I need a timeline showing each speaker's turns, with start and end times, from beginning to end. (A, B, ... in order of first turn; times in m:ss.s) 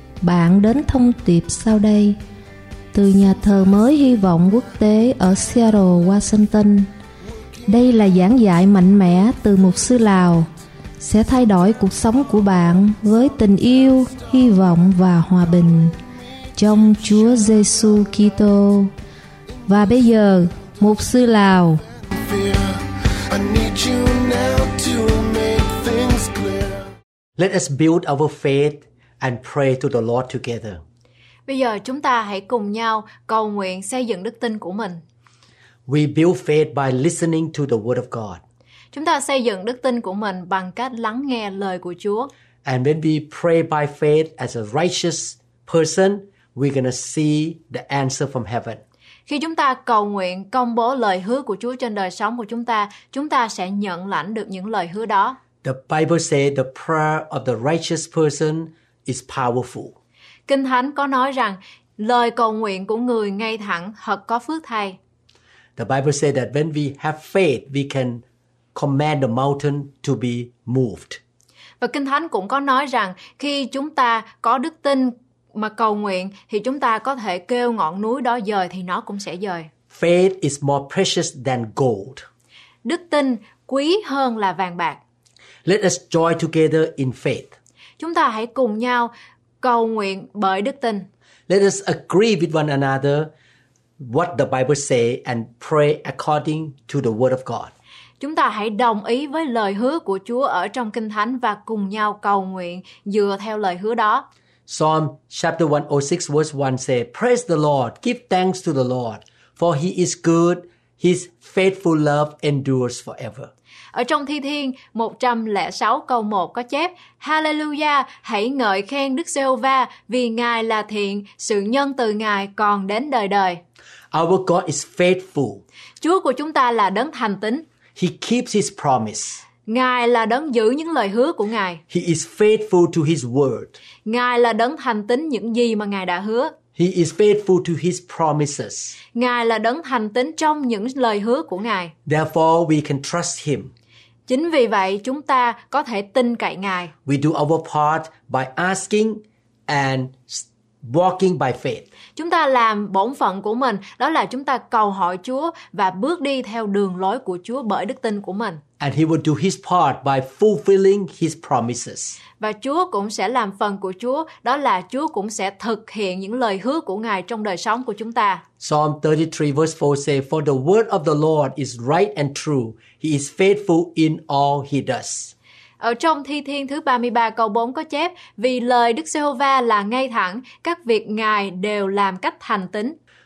0:00.2-0:02.2 A
0:02.9-0:06.9 A
0:07.7-0:10.5 A
0:11.0-0:16.0 A
0:16.5-0:18.9 A
0:19.7-0:21.8 A
0:22.1-0:26.9 B
0:27.4-0:30.8 C
0:31.5-0:35.0 D
0:35.8-0:38.4 C
0:38.9-0:42.3 D
0:42.6-0:48.8 C
0:49.3-0:55.4 D
0:55.6-0:59.9 C
1:00.5-1:05.0 D
1:05.8-1:08.2 C
1:08.7-1:11.2 C
1:11.8-1:19.7 D
1:19.9-1:22.2 C
1:22.8-1:25.0 D
1:25.6-1:27.5 C
1:28.0-1:31.1 D
1:31.5-1:33.3 C
1:34.0-1:37.7 C
1:38.2-1:44.2 D
1:44.7-1:53.5 C
1:53.9-2:03.6 D
2:04.1-2:05.6 C
2:06.0-2:07.6 D
2:08.0-2:09.4 C
2:09.6-2:11.8 D
2:11.9-2:13.8 C
2:14.0-2:16.5 D
2:16.8-2:19.0 C
2:19.1-2:21.9 D
2:22.0-2:23.7 C
2:24.3-2:26.9 D
2:27.0-2:31.8 C
2:32.2-2:38.6 D
2:38.8-2:42.2 C
2:42.4-2:48.4 D
2:48.6-2:55.3 C
2:55.8-3:03.0 D